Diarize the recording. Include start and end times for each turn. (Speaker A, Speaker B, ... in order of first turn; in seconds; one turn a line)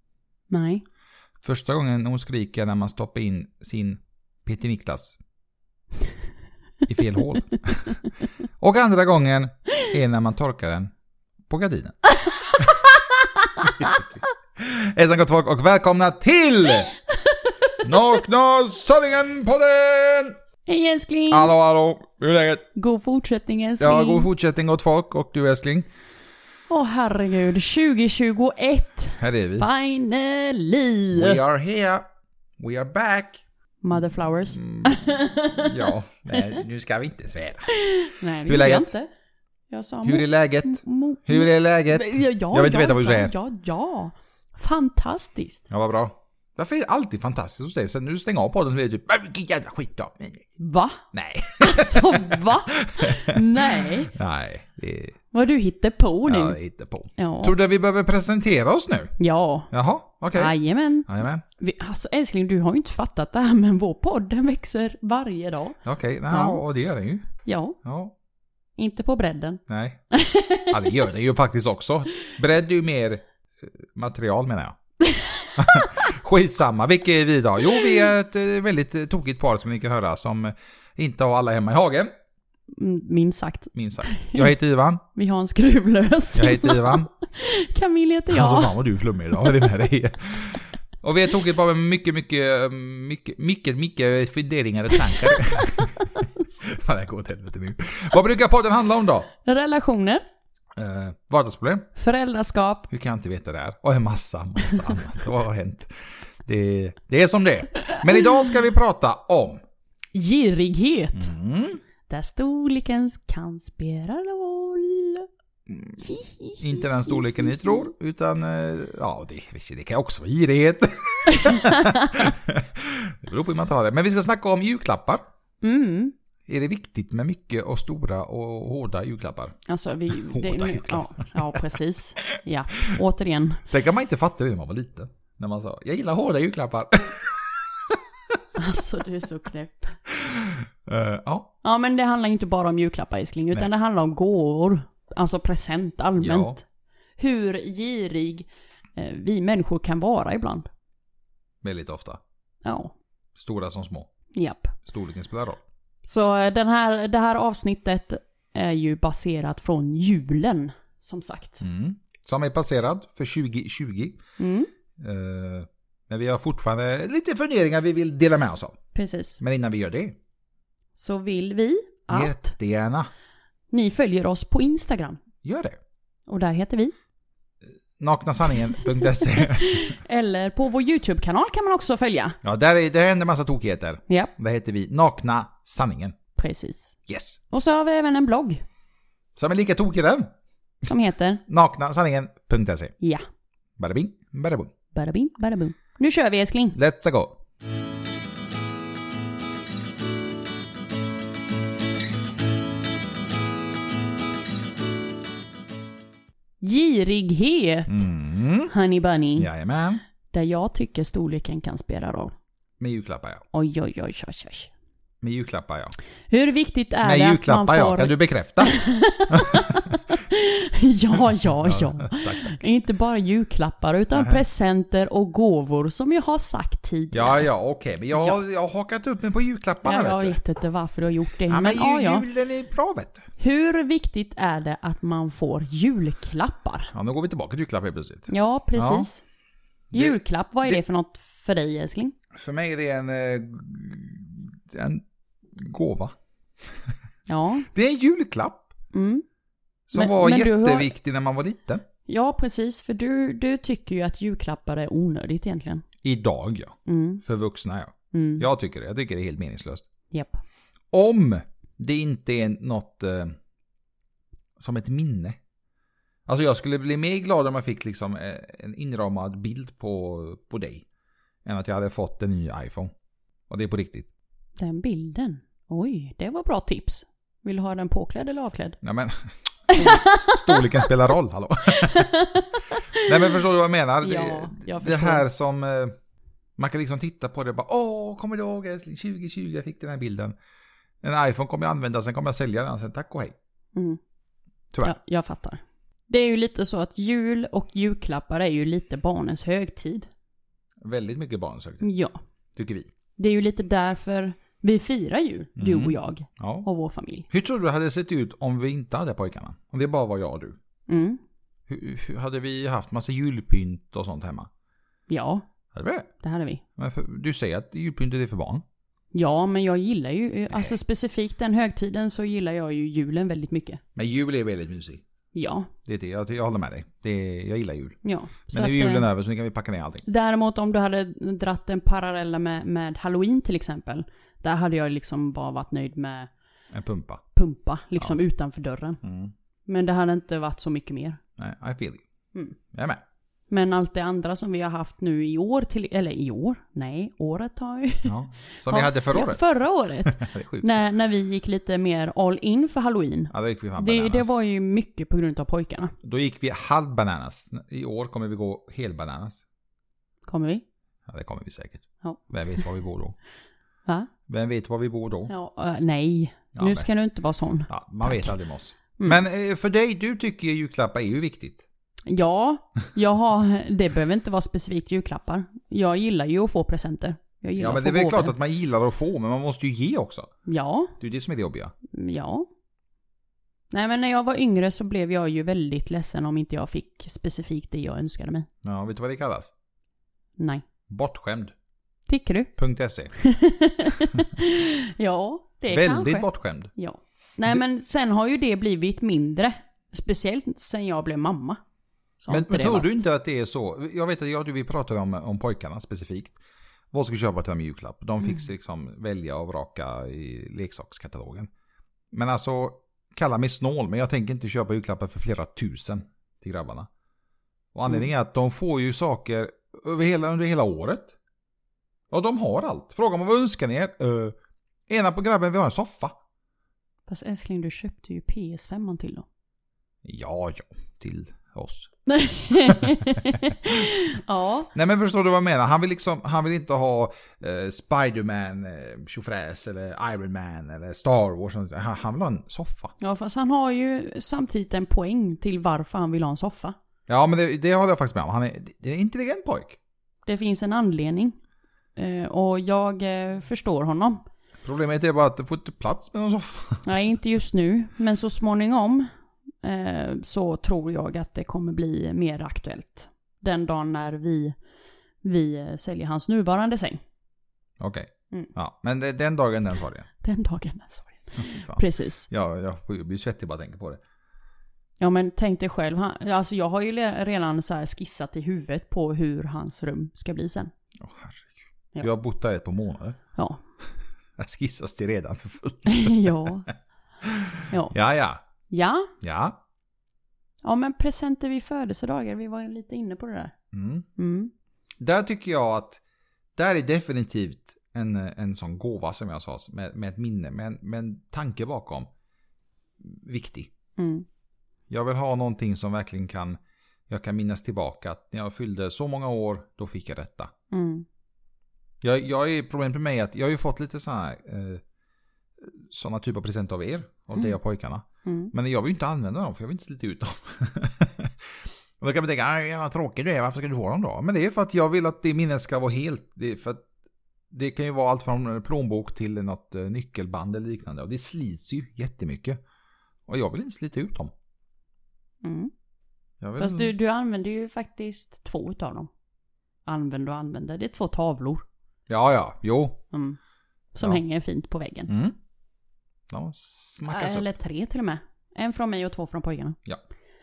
Speaker A: 0.5-0.8
Speaker B: 1.4-5.2
Speaker B: 6.8-8.0
Speaker B: 8.6-10.9
Speaker B: 11.5-12.0
Speaker A: 12.2-14.0
Speaker B: 13.6-16.9
Speaker A: 17.1-17.7
Speaker B: 17.8-20.4
Speaker A: 20.6-21.5
Speaker B: 21.3-22.6
Speaker A: 22.8-24.3
Speaker B: 23.8-25.9
Speaker A: 26.7-31.4
Speaker B: 29.2-29.7
Speaker B: 31.1-32.0
Speaker B: 32.6-33.4
Speaker A: 33.8-36.6
Speaker B: 34.5-37.7
Speaker A: 37.8-39.1
Speaker B: 38.5-38.9
Speaker A: 39.7-45.6
Speaker B: 40.0-43.3
Speaker B: 45.7-50.5
Speaker A: 50.6-51.0
Speaker B: 51.1-55.2
Speaker A: 51.6-54.1
Speaker A: 55.3-56.6
Speaker B: 56.2-59.1
Speaker A: 57.2-57.5
Speaker A: 59.2-59.7
Speaker B: 59.7-60.5
Speaker A: 60.3-65.8
Speaker B: 61.1-61.4
Speaker B: 65.8-67.3
Speaker A: 66.3-66.6
Speaker A: 67.4-67.8
Speaker B: 67.8-68.1
Speaker A: 68.8-70.8
Speaker B: 69.7-70.0
Speaker B: 70.6-74.8
Speaker A: 75.0-75.8
Speaker B: 75.5-82.1
Speaker A: 82.7-84.5
Speaker B: 83.7-85.0
Speaker A: 85.1-88.8
Speaker B: 86.3-87.1
Speaker B: 88.3-99.3
Speaker A: 95.1-95.4
Speaker A: 96.2-96.4
Speaker A: 99.3-100.2
Speaker B: 100.8-101.9
Speaker A: 102.0-102.9
Speaker B: 102.9-105.9
Speaker B: 106.4-109.6
Speaker A: 110.1-111.3
Speaker B: 111.1-111.8
Speaker A: 112.1-115.3
Speaker B: 115.7-116.1
Speaker A: 116.0-117.8
Speaker B: 116.6-125.2
Speaker A: 121.4-122.3
Speaker A: 125.6-126.1
Speaker B: 126.5-129.6
Speaker A: 129.7-133.7
Speaker B: 130.1-131.7
Speaker B: 132.2-132.9
Speaker B: 133.7-138.0
Speaker A: 138.6-140.0
Speaker B: 140.1-141.5
Speaker A: 141.6-146.6
Speaker B: 146.2-146.6
Speaker A: 147.2-150.7
Speaker B: 151.6-152.2
Speaker A: 152.6-152.9
Speaker B: 153.3-154.1
Speaker A: 154.3-154.8
Speaker B: 154.8-155.6
Speaker A: 156.0-161.6
Speaker B: 161.6-164.2
Speaker A: 164.4-164.7
Speaker B: 165.0-168.8
Speaker A: 168.9-169.4
Speaker B: 169.4-170.2
Speaker A: 170.9-172.5
Speaker B: 172.1-173.1
Speaker A: 173.7-175.2
Speaker B: 175.4-175.8
Speaker A: 176.3-176.9
Speaker B: 178.0-180.0
Speaker A: 179.3-182.4
Speaker B: 182.4-186.2
Speaker A: 184.1-184.3
Speaker A: 186.3-186.9
Speaker B: 187.1-187.4
Speaker A: 187.5-188.6
Speaker B: 189.3-190.3
Speaker A: 190.8-191.4
Speaker B: 191.5-192.9
Speaker A: 193.0-193.2
Speaker B: 193.8-194.7
Speaker A: 194.9-196.8
Speaker B: 196.7-197.4
Speaker A: 206.6-208.1
Speaker B: 207.9-208.7
Speaker A: 208.7-209.5
Speaker B: 209.4-210.0
Speaker A: 210.3-212.3
Speaker B: 212.8-213.4
Speaker A: 213.5-214.7
Speaker B: 215.2-215.9
Speaker A: 216.3-227.5
Speaker B: 217.0-218.8
Speaker B: 219.3-220.0
Speaker B: 221.6-222.6
Speaker B: 224.1-224.4
Speaker B: 227.1-230.4
Speaker A: 228.1-228.4
Speaker A: 229.8-232.2
Speaker B: 231.5-233.3
Speaker A: 233.4-236.9
Speaker B: 236.9-239.1
Speaker A: 238.3-239.2
Speaker B: 239.9-240.8
Speaker A: 239.9-242.1
Speaker B: 242.3-245.0
Speaker B: 245.5-246.1
Speaker A: 247.3-247.7
Speaker B: 247.7-248.7
Speaker A: 248.9-249.2
Speaker B: 249.9-251.8
Speaker A: 249.9-250.9
Speaker A: 252.1-255.8
Speaker B: 256.0-259.9
Speaker A: 256.9-257.2
Speaker A: 258.1-258.4
Speaker A: 260.1-260.4
Speaker B: 260.9-263.4
Speaker B: 264.6-265.4
Speaker B: 266.3-270.8
Speaker B: 271.4-272.9
Speaker B: 273.5-274.1
Speaker A: 274.6-278.8
Speaker B: 278.8-282.2
Speaker A: 279.7-280.7
Speaker A: 281.8-283.4
Speaker B: 282.9-285.9
Speaker A: 284.0-285.2
Speaker B: 286.6-290.3
Speaker B: 291.0-293.3
Speaker A: 294.8-300.1
Speaker B: 300.8-301.9
Speaker A: 301.8-302.2
Speaker B: 302.6-302.9
Speaker A: 303.2-307.3
Speaker B: 305.6-306.7
Speaker B: 307.3-310.6
Speaker A: 310.9-311.2
Speaker B: 311.7-314.5
Speaker A: 315.1-315.4
Speaker B: 315.7-316.1
Speaker A: 316.2-316.6
Speaker B: 316.8-318.6
Speaker A: 319.1-323.8
Speaker B: 320.5-320.8
Speaker B: 323.9-325.0
Speaker A: 325.3-325.7
Speaker B: 325.8-330.0
Speaker A: 328.0-329.1
Speaker A: 330.0-336.3
Speaker B: 336.7-337.2
Speaker A: 337.3-339.0
Speaker B: 339.0-339.3
Speaker A: 339.7-341.2
Speaker B: 341.4-342.0
Speaker B: 342.7-343.0
Speaker A: 343.5-348.1
Speaker B: 348.0-349.4
Speaker A: 348.7-355.9
Speaker B: 350.1-350.8
Speaker B: 353.3-354.3
Speaker B: 356.0-359.4
Speaker A: 360.2-360.6
Speaker B: 361.1-363.2
Speaker B: 364.3-365.3
Speaker A: 365.3-368.4
Speaker B: 366.5-366.9
Speaker B: 367.7-371.6
Speaker A: 372.1-378.3
Speaker B: 377.6-380.3
Speaker A: 380.4-380.9
Speaker B: 381.0-381.7
Speaker A: 381.9-382.5
Speaker A: 383.7-388.5
Speaker B: 388.6-389.5
Speaker A: 390.4-390.6
Speaker B: 390.9-391.5
Speaker A: 392.1-392.5
Speaker B: 392.6-393.1
Speaker A: 393.1-401.6
Speaker B: 395.7-396.7
Speaker A: 402.2-403.0
Speaker B: 402.3-406.4
Speaker B: 406.9-411.5
Speaker B: 412.1-416.9
Speaker B: 417.7-421.1
Speaker B: 422.1-424.3
Speaker B: 424.9-426.2
Speaker A: 427.1-429.2
Speaker B: 430.0-431.9
Speaker A: 432.1-434.7
Speaker B: 432.6-433.5
Speaker B: 434.7-442.9
Speaker A: 443.0-446.8
Speaker B: 447.1-449.8
Speaker A: 450.2-451.4
Speaker A: 451.9-454.2
Speaker B: 454.6-456.9
Speaker A: 456.8-459.1
Speaker A: 459.6-464.6
Speaker A: 465.2-467.0
Speaker B: 467.8-470.1
Speaker A: 470.2-472.3
Speaker B: 471.4-474.0
Speaker A: 475.0-480.7
Speaker B: 481.0-483.2
Speaker B: 484.4-486.7
Speaker A: 485.9-486.7
Speaker B: 487.2-488.4
Speaker A: 488.7-489.1
Speaker B: 489.2-489.6
Speaker A: 490.6-493.5
Speaker B: 493.7-494.1
Speaker A: 494.2-494.5
Speaker B: 495.0-496.0
Speaker B: 496.6-502.1
Speaker B: 503.0-503.7
Speaker A: 504.0-504.2
Speaker B: 504.9-510.5
Speaker A: 510.7-511.1
Speaker B: 512.0-514.8
Speaker B: 515.6-521.5
Speaker A: 518.2-518.5
Speaker B: 522.0-526.9
Speaker B: 527.5-532.6
Speaker B: 533.3-534.3
Speaker A: 535.4-535.7
Speaker B: 536.4-536.9
Speaker A: 536.6-539.1
Speaker A: 539.9-541.6
Speaker B: 542.1-543.0
Speaker A: 543.1-543.4
Speaker A: 543.9-545.1
Speaker B: 545.1-545.3
Speaker B: 546.3-547.5
Speaker A: 547.1-549.8